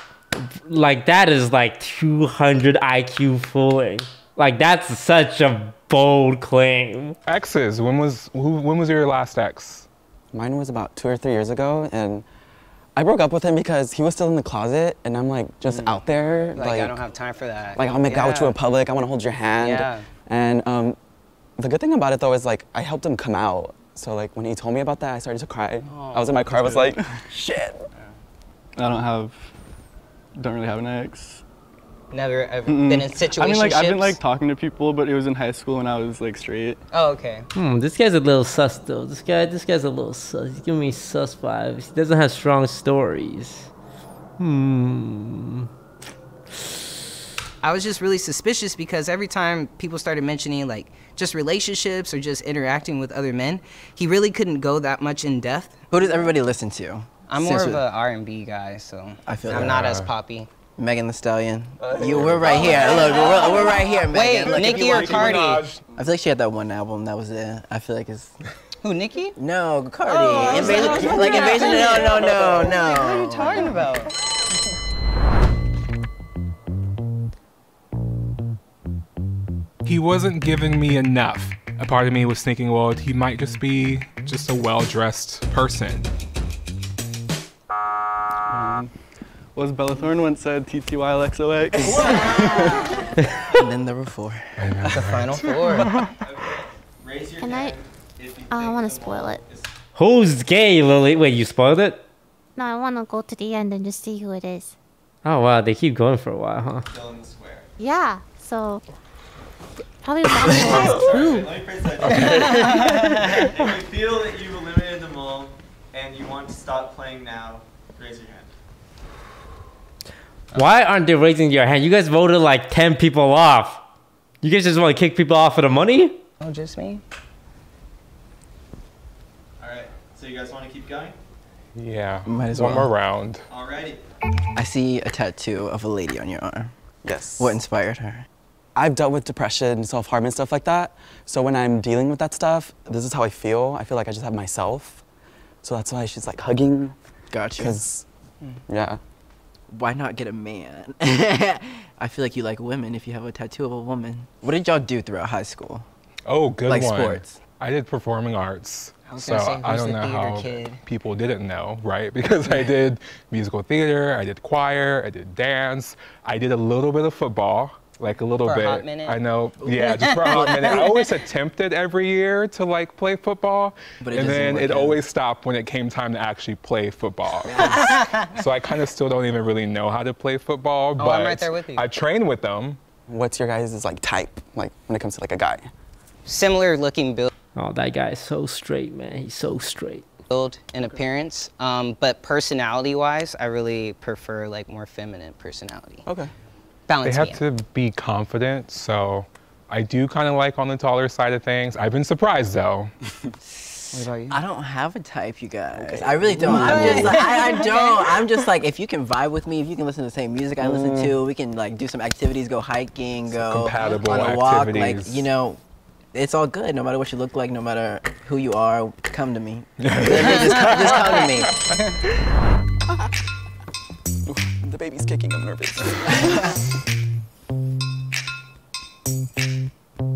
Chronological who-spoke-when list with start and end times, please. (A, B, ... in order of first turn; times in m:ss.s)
0:00.6-0:07.2 A
0:07.3-0:09.9 B
0:10.3-0:12.3 C
0:13.0-0:17.0 C
0:15.7-0:16.0 D
0:16.5-0:18.6 D
0:17.8-0:21.0 C
0:19.6-0:20.0 D
0:21.6-0:27.8 C
0:25.8-0:26.4 D
0:26.5-0:27.3 E
0:28.8-0:29.5 E
0:30.4-0:31.4 E
0:32.1-0:34.2 D
0:32.7-0:36.8 E
0:36.9-0:37.5 D
0:37.5-0:43.7 A
0:44.4-0:45.7 A
0:47.6-0:55.8 D
0:55.9-0:57.8 F
0:57.3-1:00.5 D
0:59.3-0:59.8 F
0:59.6-1:00.1 B
1:00.8-1:08.4 F
1:01.8-1:03.8 C
1:02.9-1:05.7 D
1:04.4-1:05.8 B
1:08.8-1:09.4 D
1:09.4-1:13.9 F
1:10.1-1:14.1 D
1:10.5-1:11.4 C
1:19.8-1:26.1 B
1:28.5-1:29.0 E
1:29.6-1:31.9 E
1:31.9-1:32.9 G
1:31.9-1:32.4 F
1:33.5-1:34.8 F
1:34.6-1:36.0 B
1:34.9-1:35.9 D
1:36.2-1:39.7 G
1:37.4-1:37.8 H
1:38.5-1:39.4 H
1:40.0-1:42.0 A
1:42.6-1:44.7 H
1:45.2-1:46.9 A
1:46.8-1:47.7 G
1:47.8-1:48.8 H
1:50.0-1:51.6 H
1:50.4-1:58.5 G
2:00.5-2:03.8 A
2:04.4-2:06.2 A
2:06.4-2:07.0 D
2:09.6-2:11.2 G
2:11.8-2:13.4 B
2:12.3-2:12.9 F
2:13.5-2:14.0 G
2:14.6-2:16.7 F
2:17.0-2:17.6 C
2:17.4-2:18.3 F
2:18.8-2:25.0 C
2:25.6-2:27.0 C
2:27.3-2:27.8 F
2:27.6-2:28.0 C
2:28.7-2:29.0 C
2:29.7-2:35.9 F
2:36.3-3:02.8 B
2:36.6-2:37.4 F
2:39.1-2:40.8 D
2:48.4-2:51.1 D
2:54.0-2:55.0 F
2:57.5-2:57.8 F
2:57.6-2:58.3 D
3:01.0-3:01.9 D
3:03.1-3:05.7 C
3:06.3-3:07.3 D
3:07.6-3:10.0 A
3:10.3-3:16.1 D
3:16.1-3:16.3 C
3:16.9-3:17.4 D
3:17.0-3:22.9 B
3:24.0-3:24.4 C
3:24.0-3:24.3 D
3:24.3-3:35.6 F
3:25.8-3:27.2 C
3:26.5-3:27.7 D
3:30.6-3:31.2 C
3:33.3-3:35.3 B
3:36.1-3:41.6 F
3:39.8-3:41.5 B
3:44.3-3:46.5 C